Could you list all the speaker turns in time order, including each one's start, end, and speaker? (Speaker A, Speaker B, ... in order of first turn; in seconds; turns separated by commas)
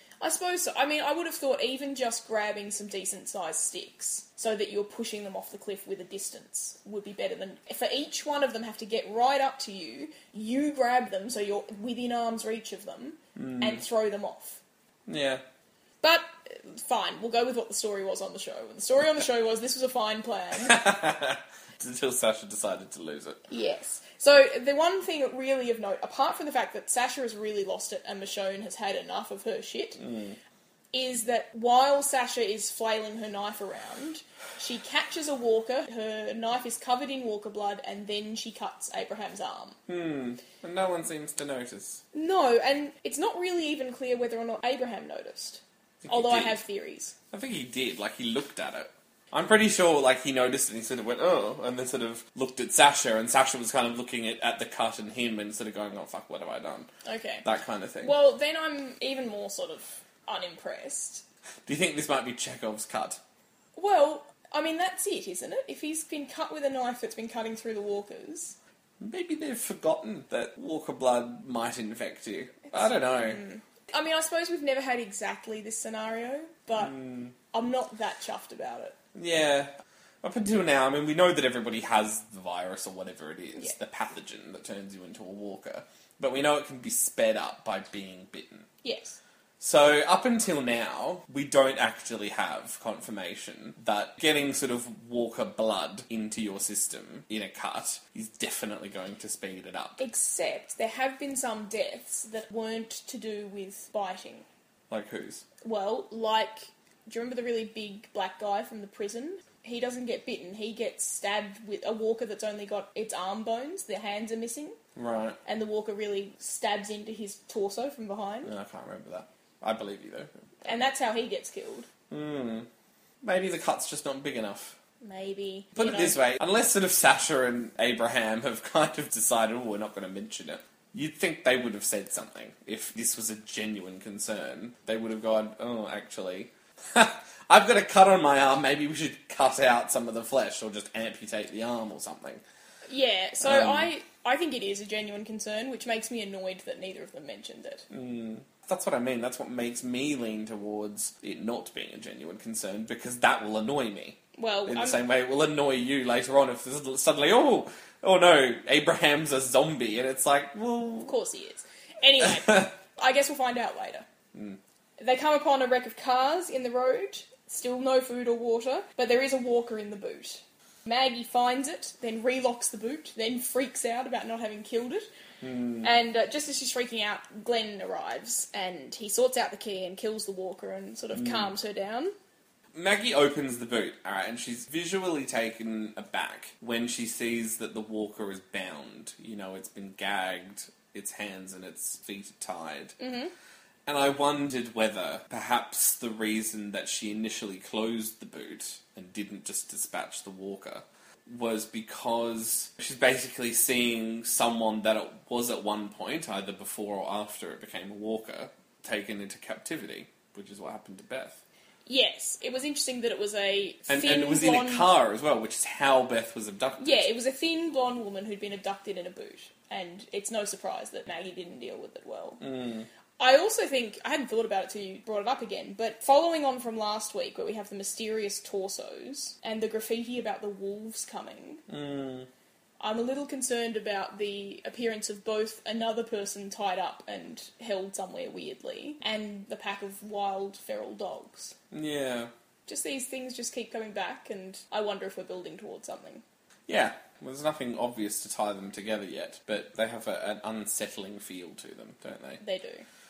Speaker A: 0.2-14.6, Speaker B: 13.3-13.8, Speaker B: 15.1-15.4, Speaker A: 16.0-20.8, Speaker B: 20.6-23.4, Speaker A: 23.5-30.0, Speaker B: 30.0-30.4, Speaker A: 30.9-39.8, Speaker B: 39.9-42.0, Speaker A: 42.1-47.1, Speaker B: 46.0-46.6, Speaker B: 47.3-56.9, Speaker A: 57.0-57.4, Speaker B: 57.4-58.1, Speaker A: 58.0-61.2, Speaker B: 61.6-63.2, Speaker A: 63.8-68.5, Speaker B: 69.0-73.4, Speaker A: 72.7-78.9, Speaker B: 76.8-77.3, Speaker B: 79.1-79.7, Speaker B: 80.2-88.7, Speaker A: 88.8-89.2, Speaker B: 89.6-100.0, Speaker A: 100.0-104.5, Speaker B: 104.9-105.4, Speaker A: 105.6-114.8, Speaker B: 115.0-115.4, Speaker A: 115.4-118.5, Speaker B: 118.4-120.3, Speaker A: 120.6-121.9, Speaker B: 122.1-122.7, Speaker B: 123.2-124.8, Speaker A: 125.0-126.2, Speaker B: 125.8-142.4, Speaker A: 142.9-147.8, Speaker B: 143.4-143.9, Speaker B: 147.9-161.1, Speaker A: 154.3-155.0, Speaker A: 161.0-164.1, Speaker B: 162.2-162.7, Speaker B: 164.3-164.6, Speaker A: 165.0-175.1, Speaker B: 175.4-175.9, Speaker A: 175.8-182.1, Speaker B: 181.1-181.5, Speaker B: 182.7-192.9, Speaker A: 193.0-193.3, Speaker B: 193.8-211.4, Speaker A: 211.8-214.9, Speaker B: 213.9-217.1, Speaker A: 216.8-222.4, Speaker B: 222.4-222.9, Speaker A: 223.2-231.6, Speaker B: 231.7-232.3, Speaker A: 232.8-241.5, Speaker B: 241.7-242.3, Speaker A: 242.7-246.2, Speaker B: 246.7-252.4, Speaker A: 252.4-252.8